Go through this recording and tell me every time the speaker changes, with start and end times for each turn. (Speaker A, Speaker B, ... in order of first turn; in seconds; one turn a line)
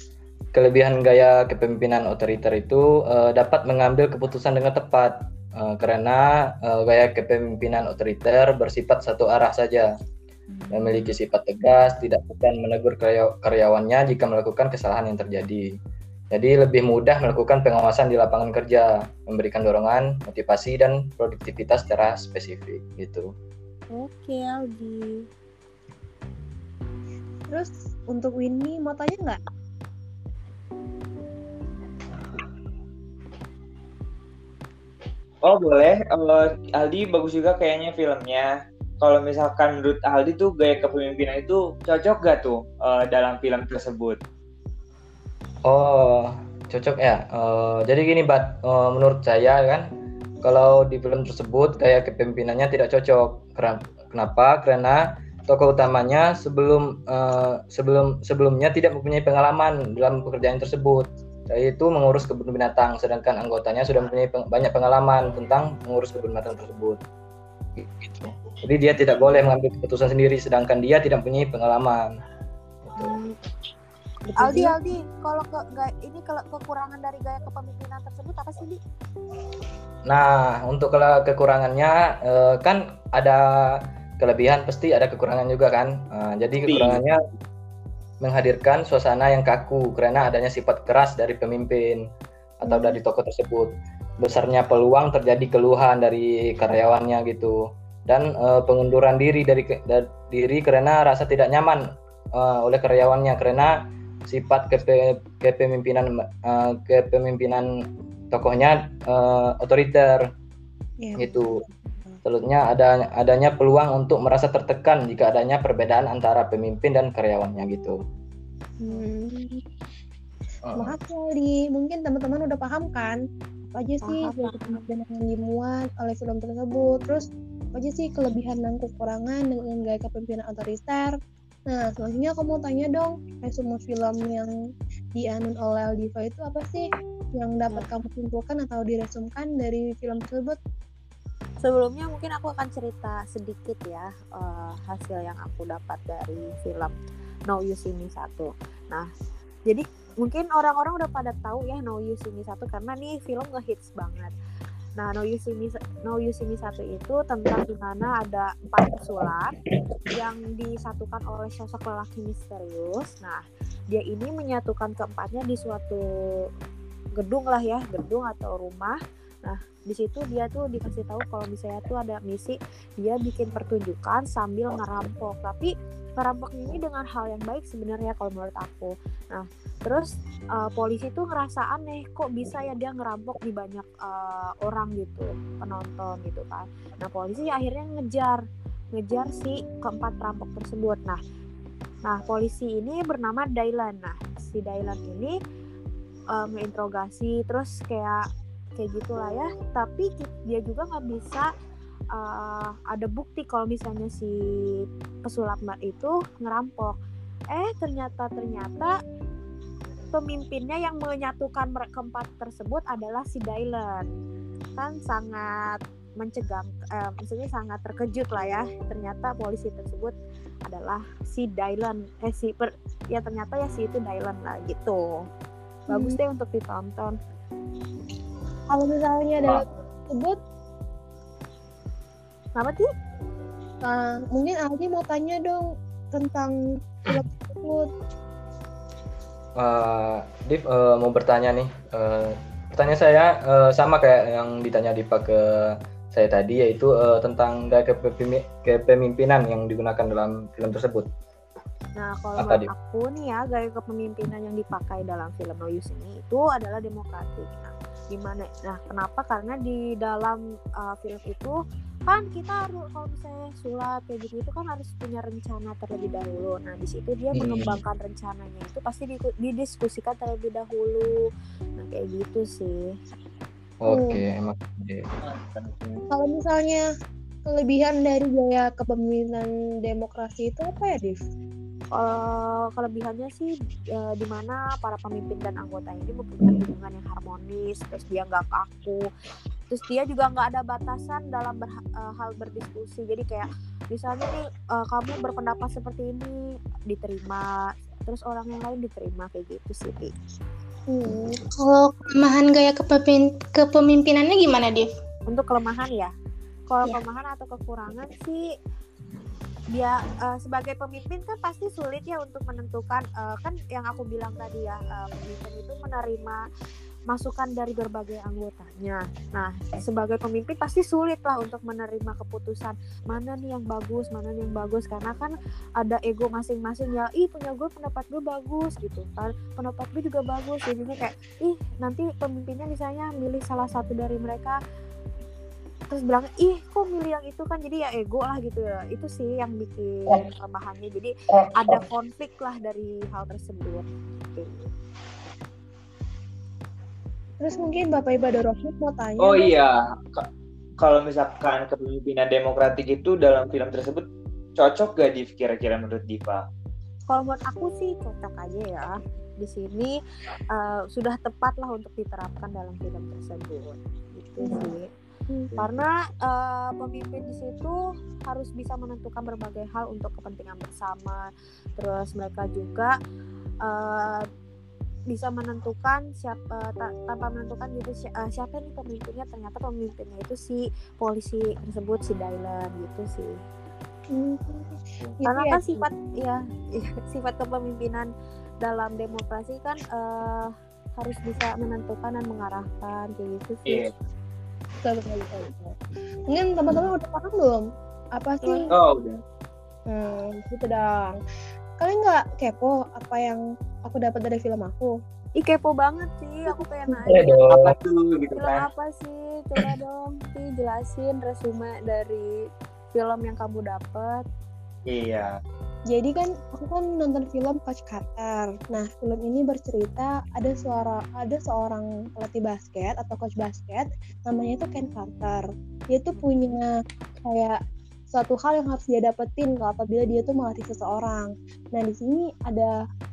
Speaker A: 0.5-9.9
Speaker B: 10.5-11.1
Speaker A: 10.7-15.7
Speaker A: 16.3-23.3
Speaker B: 23.9-25.1
Speaker C: 27.5-29.4
Speaker D: 35.4-44.2
Speaker A: 45.7-49.9
Speaker A: 50.4-67.0
Speaker A: 67.8-72.1
Speaker A: 72.9-73.1
Speaker C: 74.4-74.7
Speaker B: 74.4-78.8
Speaker A: 80.1-87.2
Speaker D: 86.7-87.0
Speaker A: 88.2-92.1
Speaker A: 92.6-110.3
Speaker C: 92.7-93.0
Speaker C: 111.0-112.2
Speaker A: 111.2-111.6
Speaker A: 112.2-118.0
Speaker C: 118.8-119.6
Speaker A: 120.7-121.0
Speaker C: 120.8-131.1
Speaker B: 124.0-124.9
Speaker C: 131.7-134.5
Speaker C: 135.2-140.6
Speaker B: 141.6-146.9
Speaker B: 147.5-149.1
Speaker B: 149.7-154.3
Speaker B: 155.0-159.6
Speaker B: 160.1-166.0
Speaker B: 167.2-188.4
Speaker B: 188.9-191.2
Speaker B: 192.1-195.3
Speaker B: 196.3-198.3
Speaker B: 198.8-201.5
Speaker B: 202.1-207.0
Speaker B: 207.5-209.0
Speaker B: 210.1-214.1
Speaker B: 214.8-220.1
Speaker B: 220.7-225.2
Speaker B: 225.9-227.2
Speaker C: 225.9-226.2
Speaker C: 228.7-230.4
Speaker B: 232.6-232.9
Speaker C: 233.8-237.9
Speaker A: 239.6-251.1
Speaker B: 252.0-271.1
Speaker A: 252.4-252.7
Speaker A: 267.3-267.8
Speaker B: 271.8-272.8
Speaker A: 273.8-275.1
Speaker C: 273.9-274.2
Speaker D: 275.2-276.0
Speaker C: 276.1-276.8
Speaker C: 277.5-281.2
Speaker B: 281.9-289.0
Speaker B: 289.7-296.3
Speaker B: 296.9-300.1
Speaker C: 300.9-301.4
Speaker E: 301.6-304.9
Speaker B: 305.3-306.1
Speaker B: 306.7-308.4
Speaker B: 309.7-316.4
Speaker B: 317.1-334.6
Speaker B: 335.9-344.6
Speaker C: 347.4-349.5
Speaker D: 349.2-350.3
Speaker D: 350.8-354.1
Speaker D: 354.6-356.4
Speaker B: 357.1-360.0
Speaker B: 360.5-364.9
Speaker C: 364.4-364.7
Speaker C: 365.3-365.6
Speaker B: 365.6-371.2
Speaker B: 371.8-373.0
Speaker B: 373.6-374.3
Speaker B: 375.1-383.4
Speaker C: 384.1-385.9
Speaker B: 385.2-388.1
Speaker B: 388.6-393.9
Speaker C: 394.8-395.8
Speaker C: 396.3-397.6
Speaker C: 398.2-398.7
Speaker B: 398.4-398.7
Speaker D: 398.7-399.2
Speaker C: 399.9-401.2
Speaker C: 401.8-404.9
Speaker B: 405.4-407.4
Speaker C: 406.5-407.2
Speaker A: 407.1-407.8
Speaker D: 407.5-408.6
Speaker B: 408.3-412.3
Speaker B: 412.9-414.2
Speaker D: 414.9-415.4
Speaker C: 415.9-426.7
Speaker C: 427.3-427.6
Speaker C: 428.1-432.7